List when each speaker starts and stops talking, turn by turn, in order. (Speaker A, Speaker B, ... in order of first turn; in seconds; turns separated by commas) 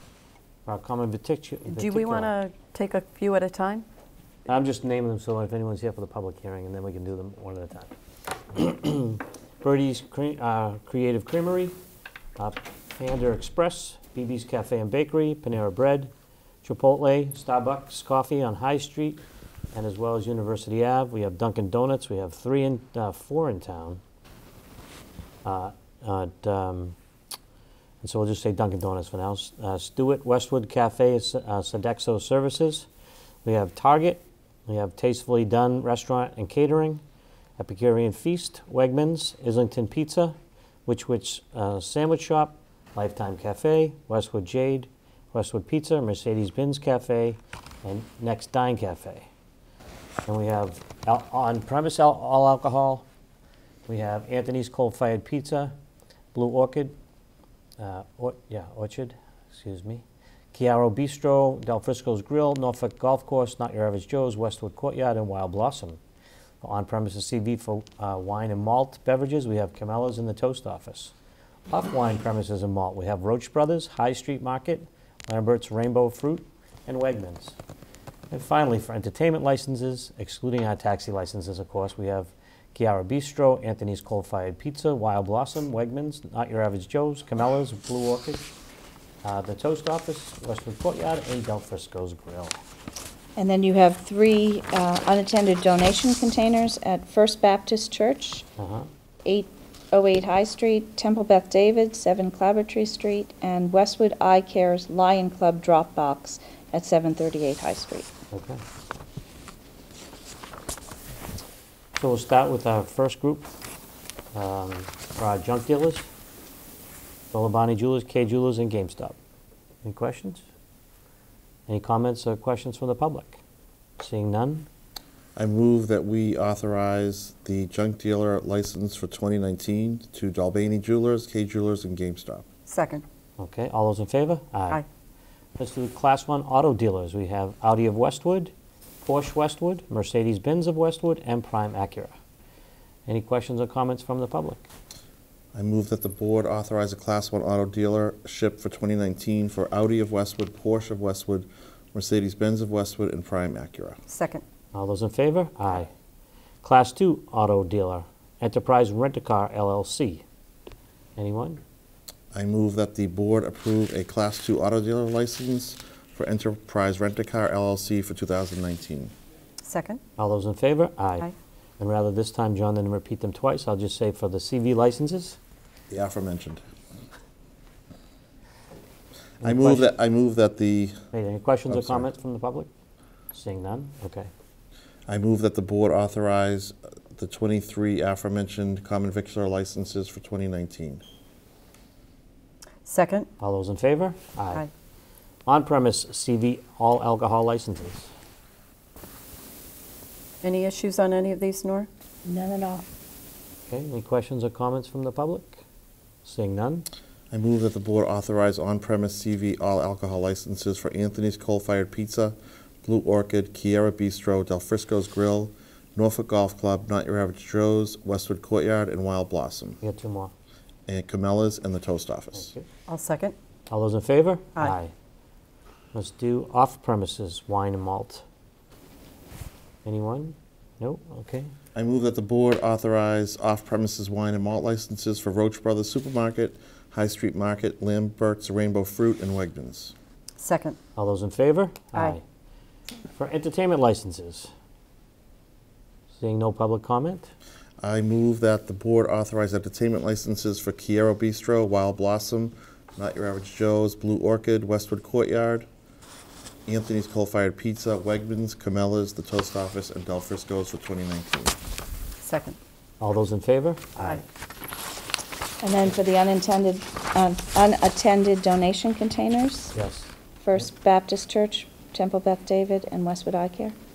Speaker A: 0.7-2.3, Speaker B: 1.7-3.9, Speaker A: 4.5-7.9, Speaker A: 8.5-11.8, Speaker A: 12.4-16.1, Speaker A: 16.6-24.0, Speaker A: 25.4-27.0, Speaker A: 28.0-32.9, Speaker A: 33.5-37.0, Speaker A: 37.6-40.4, Speaker A: 40.9-49.3, Speaker A: 50.3-53.0, Speaker A: 53.9-55.8, Speaker A: 56.3-57.0, Speaker A: 57.8-66.0, Speaker A: 66.6-71.1, Speaker A: 71.7-77.6, Speaker A: 78.3-88.5, Speaker A: 89.2-92.6, Speaker C: 93.4-98.5, Speaker A: 98.6-98.9, Speaker C: 99.2-108.1, Speaker A: 108.3-108.6, Speaker A: 112.0-113.5, Speaker A: 114.3-116.1, Speaker A: 117.3-119.2, Speaker A: 119.8-120.5, Speaker A: 121.7-123.4, Speaker A: 124.0-124.7, Speaker D: 125.4-132.4, Speaker B: 132.7-133.0, Speaker A: 133.4-134.8, Speaker A: 135.6-142.1, Speaker A: 143.1-144.7, Speaker D: 145.5-154.0, Speaker B: 154.1-154.4, Speaker A: 154.7-155.9, Speaker A: 156.6-160.2, Speaker A: 161.2-161.6, Speaker D: 162.3-169.1, Speaker B: 169.6-170.0, Speaker A: 170.2-175.4, Speaker D: 175.9-176.6, Speaker A: 179.4-179.9, Speaker D: 179.4-181.0, Speaker A: 181.1-182.7, Speaker D: 181.7-182.1, Speaker A: 183.3-184.3, Speaker D: 185.1-191.0, Speaker B: 192.8-193.3, Speaker A: 193.4-194.7, Speaker A: 195.5-198.1, Speaker B: 200.4-201.9, Speaker C: 202.2-202.8, Speaker A: 203.7-205.6, Speaker A: 206.2-206.9, Speaker D: 207.3-219.8, Speaker A: 219.8-220.3, Speaker D: 220.9-222.5, Speaker A: 222.3-222.7, Speaker B: 222.9-223.3, Speaker A: 223.7-224.9, Speaker A: 225.9-228.2, Speaker A: 229.8-231.5, Speaker D: 231.8-239.9, Speaker B: 240.4-240.8, Speaker A: 241.0-242.2, Speaker A: 243.2-244.5, Speaker A: 246.1-247.3, Speaker D: 247.8-255.7, Speaker D: 256.7-261.6, Speaker B: 262.2-262.6, Speaker A: 263.0-264.2, Speaker C: 265.6-269.7, Speaker A: 269.7-270.6, Speaker C: 270.4-273.8